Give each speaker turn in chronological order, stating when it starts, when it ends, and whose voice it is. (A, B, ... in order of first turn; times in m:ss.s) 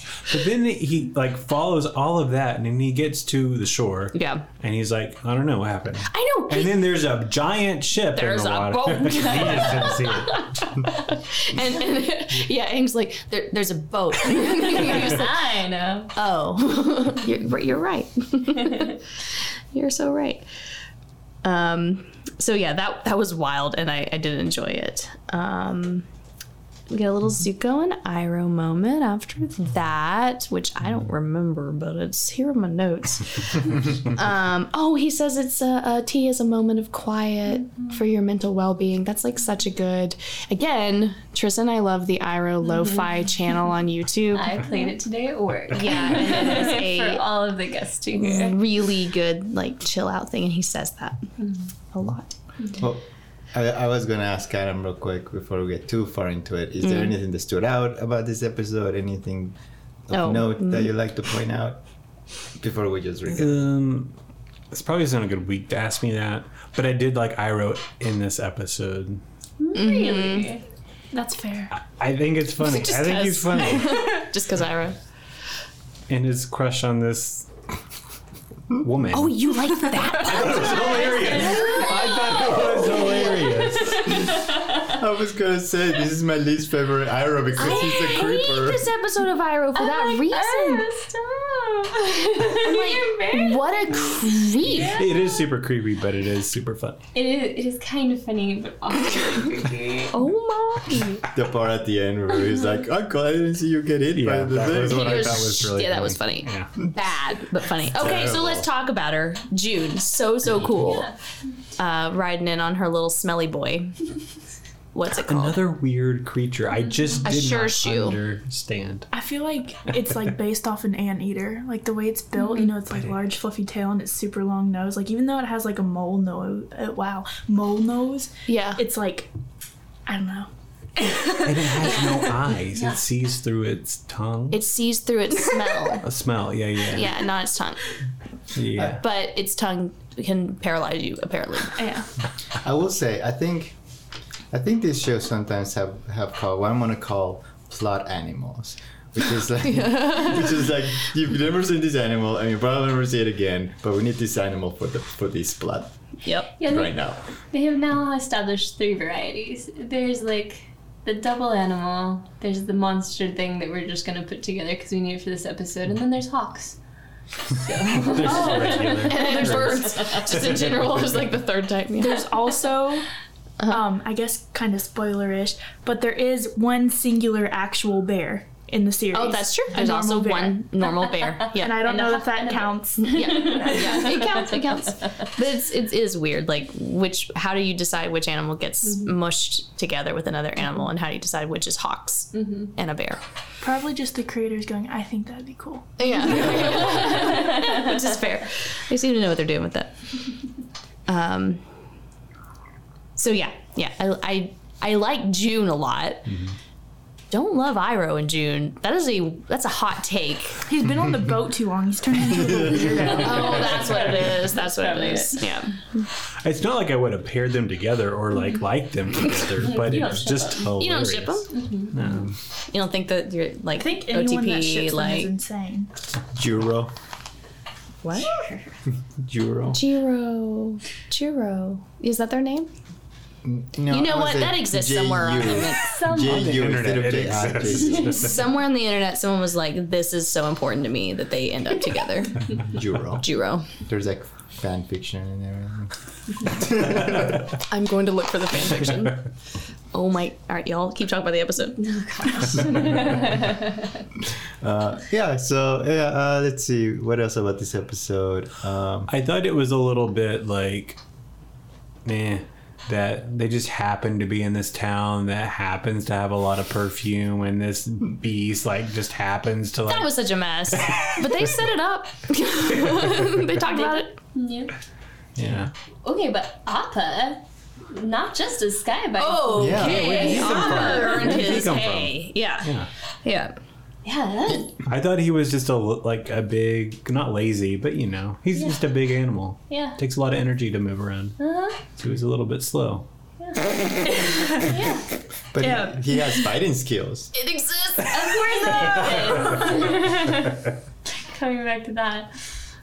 0:00.3-0:10.8 A
0:04.1-0:04.5 B
0:06.0-0:06.9 B
0:08.1-0:15.4 B
0:14.3-0:16.1 C
0:16.2-0:19.0 B
0:19.7-0:20.5 B
0:21.4-0:26.1 B
0:26.9-0:44.9 B
0:44.3-0:48.6 C
0:45.7-0:47.2 B
0:48.2-0:51.2 B
0:51.9-0:52.3 B
0:52.8-0:59.6 D
0:56.8-0:57.1 B
1:00.1-1:01.8 D
1:00.1-1:00.9 B
1:02.6-1:03.7 D
1:03.3-1:04.1 A
1:04.7-1:09.2 A
1:09.6-1:10.6 C
1:09.7-1:10.5 B
1:11.1-1:11.7 E
1:11.8-1:14.2 A
1:12.6-1:15.0 B
1:16.1-1:17.5 A
1:18.8-1:19.5 A
1:19.1-1:21.9 B
1:20.0-1:24.3 A
1:20.5-1:24.9 C
1:24.8-1:28.9 D
1:27.6-1:30.9 B
1:29.8-1:35.5 C
1:32.4-1:35.0 B
1:34.7-1:37.0 A
1:37.1-1:40.2 C
1:40.1-1:41.2 B
1:41.3-1:45.7 D
1:44.1-1:46.7 A
1:44.8-1:51.1 B
1:47.9-1:48.7 D
1:50.7-1:51.2 C
1:51.8-1:54.0 B
1:54.9-1:55.6 B
1:55.1-1:59.1 A
1:57.2-1:58.2 B
1:59.1-2:09.3 E
2:08.5-2:08.8 B
2:10.1-2:11.5 E
2:11.3-2:14.6 A
2:14.5-2:16.1 B
2:16.0-2:17.1 A
2:16.8-2:17.8 B
2:18.5-2:19.0 A
2:18.8-2:22.0 B
2:21.8-2:22.1 E
2:22.5-2:23.8 D
2:24.5-2:35.9 D
2:29.6-2:30.6 B
2:36.2-2:36.5 B
2:36.6-2:46.8 C
2:36.6-2:37.2 D
2:47.5-2:50.2 C
2:47.9-2:50.8 A
2:49.0-2:52.6 B
2:52.0-2:53.1 E
2:53.6-3:00.7 E
2:59.1-3:02.0 B
3:01.3-3:04.7 C
3:01.5-3:04.2 E
3:03.0-3:13.2 B
3:08.8-3:09.1 C
3:12.3-3:12.7 C
3:13.6-3:16.7 E
3:16.0-3:20.0 B
3:16.6-3:17.8 C
3:21.1-3:21.6 B
3:23.2-3:26.3 B
3:26.3-3:26.5 A
3:27.3-3:30.6 B
3:30.7-3:33.8 E
3:33.0-3:35.5 C
3:33.1-3:36.1 B
3:36.4-3:42.4 A
3:39.6-3:40.8 C
3:40.8-3:41.5 B
3:41.5-3:42.0 C
3:42.7-3:45.3 B
3:43.8-3:45.9 E
3:46.3-3:46.9 D
3:48.0-3:48.3 B
3:48.2-3:48.8 C
3:49.2-3:49.8 D
3:49.7-3:52.7 B
3:53.4-3:58.4 D
3:53.9-3:56.0 B
3:55.7-3:56.5 C
3:56.1-3:58.2 A
3:58.0-4:02.6 B
4:02.6-4:07.6 D
4:03.2-4:03.7 B
4:07.6-4:09.2 B
4:09.9-4:11.8 B
4:11.8-4:14.0 C
4:14.6-4:19.1 D
4:19.1-4:21.0 A
4:22.0-4:31.5 A
4:29.9-4:34.2 B
4:33.7-4:34.7 C
4:35.4-4:35.7 A
4:36.0-4:41.6 C
4:39.2-4:42.7 B
4:39.6-4:40.1 D
4:39.6-4:42.9 A
4:43.2-4:43.6 B
4:44.0-4:44.8 C
4:44.8-4:51.4 A
4:48.5-4:48.8 C
4:49.7-4:50.0 C
4:51.4-4:51.8 C
4:52.0-4:53.1 A
4:53.4-4:55.0 C
4:55.5-4:57.3 D
4:55.6-4:56.2 B
4:57.3-4:59.8 B
4:58.0-5:00.6 C
5:01.2-5:02.3 C